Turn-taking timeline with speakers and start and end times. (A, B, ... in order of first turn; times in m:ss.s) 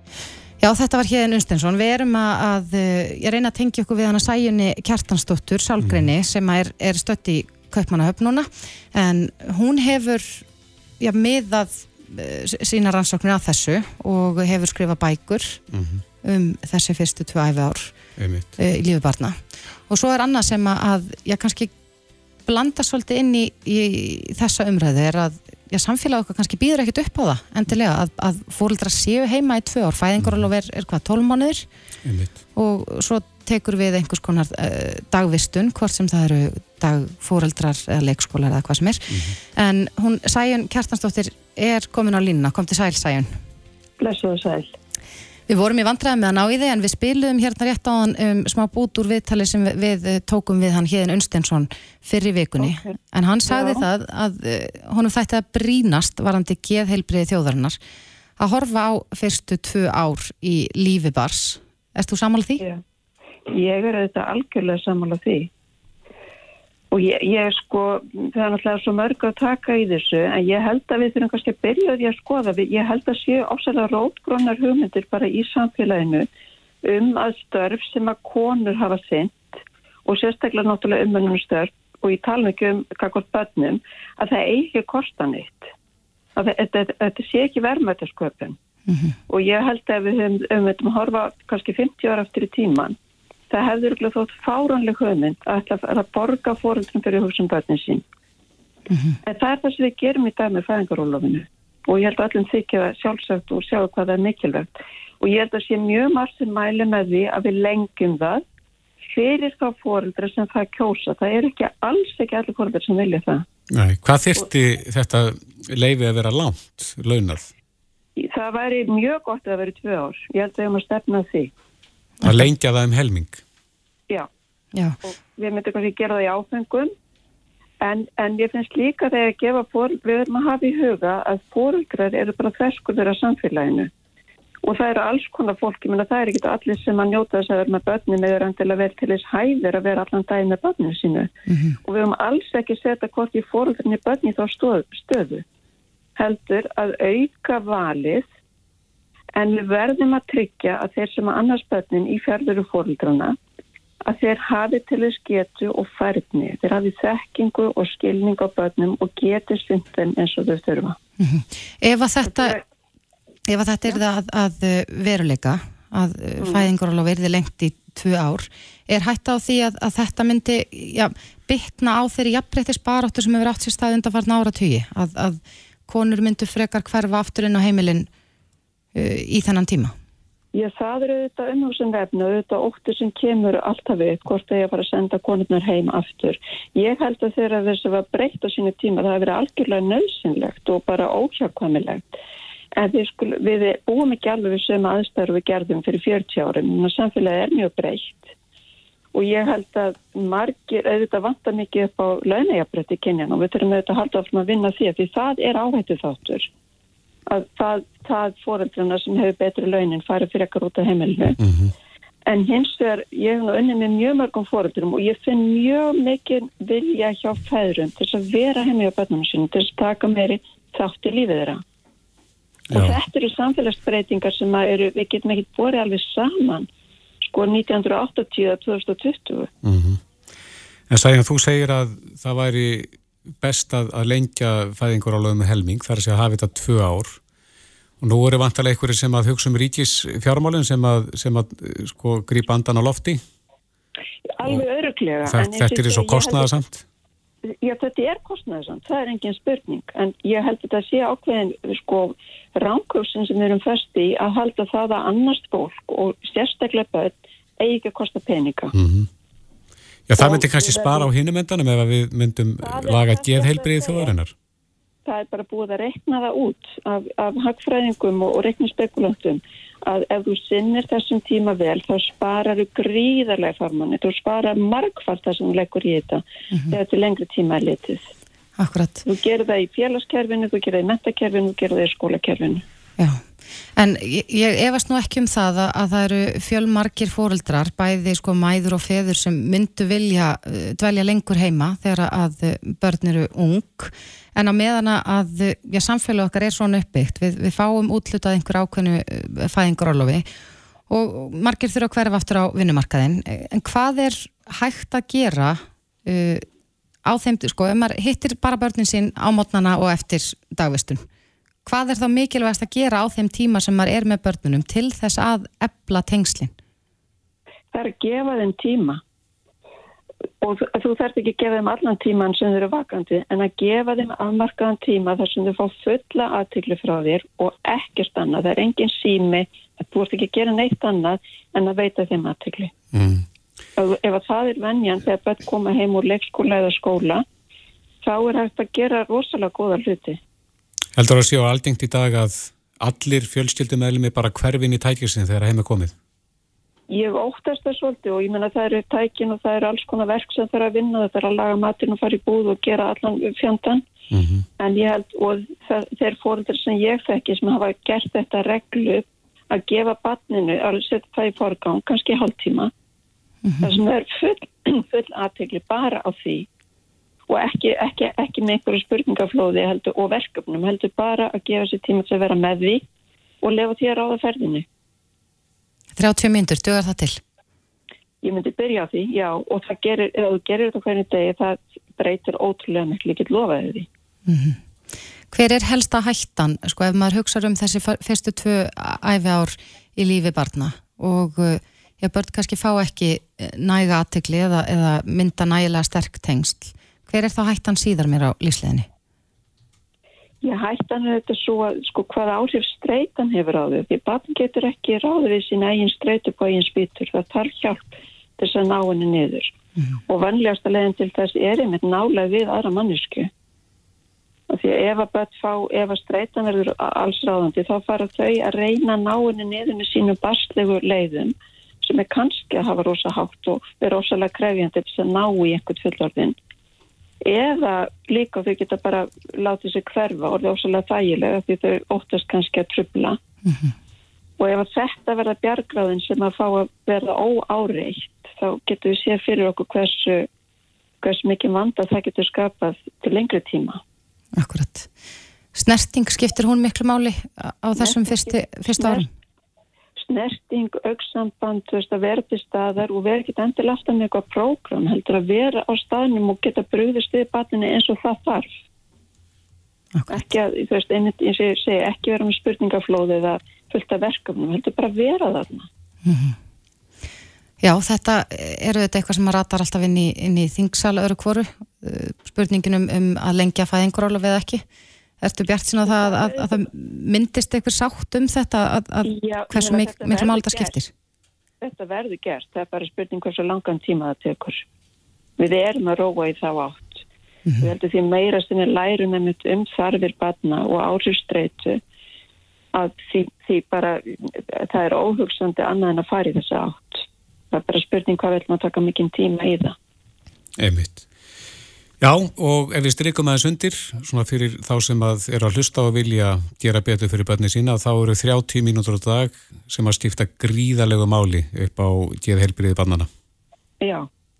0:00.6-0:10.4 A
0:05.8-0:06.1 B
0:11.0-0:15.6 A
0:15.7-0:16.0 B
0:16.2-0:18.0 A
0:18.2-0:18.5 B
0:18.6-0:21.7 A
0:22.5-0:31.7 A
0:30.2-0:30.4 B
0:32.0-0:32.4 B
0:32.6-0:43.4 A
0:39.1-0:39.4 B
0:44.0-0:44.7 C
0:45.5-0:57.8 A
0:52.6-0:52.9 C
0:53.4-0:53.9 C
0:58.4-1:02.6 A
1:03.5-1:05.5 C
1:06.9-1:16.3 C
1:16.8-1:25.7 C
1:26.4-1:28.6 C
1:28.9-1:29.2 A
1:29.3-1:33.0 C
1:33.5-1:38.0 C
1:38.9-1:39.2 A
1:39.2-1:48.4 C
1:49.1-1:53.4 C
1:53.7-1:57.5 B
1:58.2-2:01.5 C
2:02.2-2:03.4 B
2:04.7-2:05.0 A
2:05.0-2:06.9 C
2:07.8-2:13.9 C
2:14.6-2:21.3 C
2:21.5-2:21.8 A
2:21.8-2:25.4 C
2:26.2-2:28.3 C
2:29.4-2:33.4 C
2:34.0-2:41.0 C
2:41.2-2:42.6 A
2:42.2-2:42.6 C
2:43.5-2:58.1 A
2:46.4-2:46.7 C
2:58.9-2:59.9 A
3:00.5-3:12.1 C
3:12.8-3:18.3 C
3:19.1-3:26.5 C
3:27.3-3:31.4 C
3:31.4-3:31.7 B
3:32.3-3:41.6 C
3:42.7-3:43.0 B
3:42.7-3:46.7 C
3:47.2-3:49.5 C
3:49.6-3:50.0 B
3:50.9-3:57.2 B
3:58.0-4:03.2 B
4:04.3-4:06.5 C
4:05.2-4:06.8 B
4:07.6-4:18.7 C
4:18.7-4:19.1 B
4:20.1-4:24.3 B
4:20.2-4:21.1 C
4:22.6-4:24.1 C
4:25.0-4:38.1 C
4:38.6-4:39.0 A
4:39.0-4:42.6 C
4:43.0-5:00.2 A
5:00.9-5:06.4 A
5:07.0-5:11.0 A
5:11.6-5:16.5 A
5:17.7-5:19.0 C
5:20.4-5:32.7 C
5:32.9-5:33.2 B
5:33.8-5:37.2 C
5:38.0-5:40.2 C
5:41.0-5:45.9 B
5:46.9-5:53.8 C
5:54.1-5:54.4 B
5:54.6-6:02.7 C
6:03.4-6:03.7 A
6:03.6-6:06.5 C
6:07.3-6:12.8 C
6:13.4-6:14.6 C
6:16.0-6:17.2 A
6:18.2-6:23.9 C
6:24.3-6:24.6 A
6:25.3-6:38.9 A
6:40.4-6:49.5 C
6:50.1-6:53.3 C
6:54.5-7:06.4 C
7:07.2-7:13.2 C
7:13.4-7:13.7 A
7:14.4-7:20.3 C
7:21.0-7:23.8 C
7:24.4-7:24.9 A
7:25.5-7:29.1 A
7:27.8-7:29.1 C
7:30.0-7:38.5 C
7:39.9-7:40.2 A
7:40.1-7:45.7 C
7:46.0-7:46.4 A
7:47.6-7:54.6 A
7:55.2-8:00.9 A
7:55.8-7:56.7 C
7:59.0-8:00.8 C
8:01.6-8:04.6 C
8:05.4-8:07.0 C
8:07.6-8:11.8 C
8:12.7-8:19.8 C
8:20.6-8:21.0 B
8:22.0-8:33.1 B
8:33.8-8:34.1 C